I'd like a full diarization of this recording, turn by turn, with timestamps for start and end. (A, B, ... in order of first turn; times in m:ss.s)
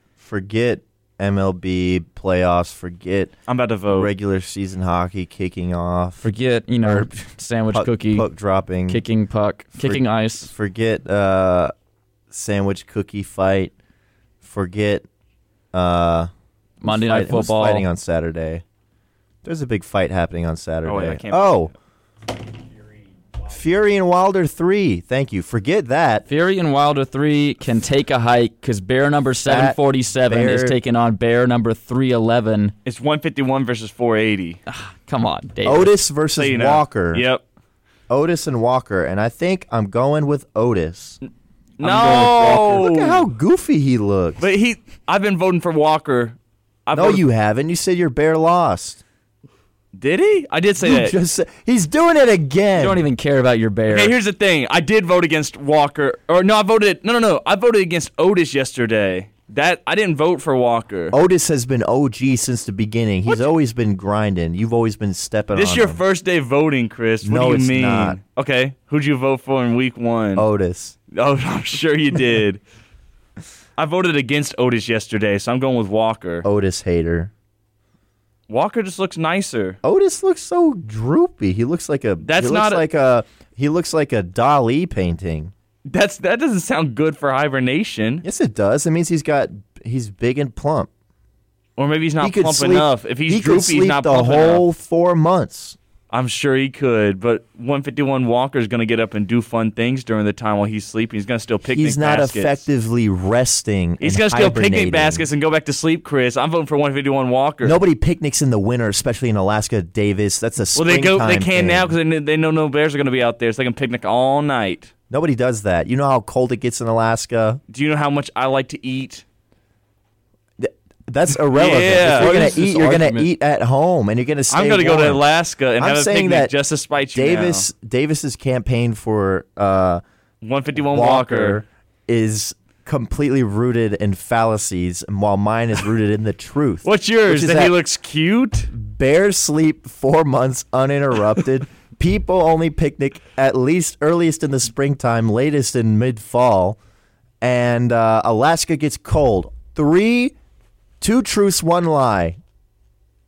0:00.2-0:03.3 A
0:03.5-0:04.1 B
0:03.9-0:06.2 A
0:06.2-0:08.3 C
0:06.8-0:07.1 A
0:07.7-0:09.0 A
0:08.9-0:10.5 C
0:09.8-0:11.7 A
0:12.3-0:13.7 A
0:14.4-0:15.1 A
0:15.7-0:16.3 A
0:16.8-0:17.9 C
0:16.8-0:18.6 A
0:19.4-0:21.7 A
0:20.8-0:21.7 B
0:23.4-0:26.2 A
0:26.3-0:32.7 C
0:29.4-0:30.8 A
0:32.8-0:34.6 B
0:34.7-0:36.0 C
0:35.6-0:37.3 A
0:36.4-0:37.4 B
0:38.1-0:41.2 A
0:41.8-0:43.2 B
0:41.8-0:44.5 A
0:44.4-0:47.2 B
0:46.9-0:49.0 A
0:49.9-0:51.1 B
0:50.8-0:53.0 A
0:52.8-0:54.2 C
0:53.9-1:01.1 B
1:01.1-1:06.0 A
1:05.5-1:10.5 B
1:07.2-1:08.2 A
1:10.4-1:11.0 A
1:11.1-1:12.6 B
1:13.8-1:16.4 B
1:16.4-1:17.3 A
1:18.5-1:19.8 B
1:19.8-1:25.5 A
1:22.2-1:22.9 B
1:25.9-1:28.2 B
1:28.2-1:30.9 A
1:31.8-1:34.6 B
1:32.2-1:35.8 A
1:36.1-1:42.7 B
1:41.7-1:45.3 A
1:44.0-1:47.8 B
1:47.6-1:52.0 A
1:50.8-1:54.9 B
1:55.1-1:57.6 A
1:57.7-1:59.2 B
2:00.6-2:10.0 A
2:01.5-2:03.1 B
2:04.5-2:07.7 B
2:10.4-2:11.6 B
2:10.8-2:17.8 A
2:16.8-2:18.7 B
2:18.7-2:26.8 A
2:27.4-2:30.3 A
2:31.0-2:32.4 A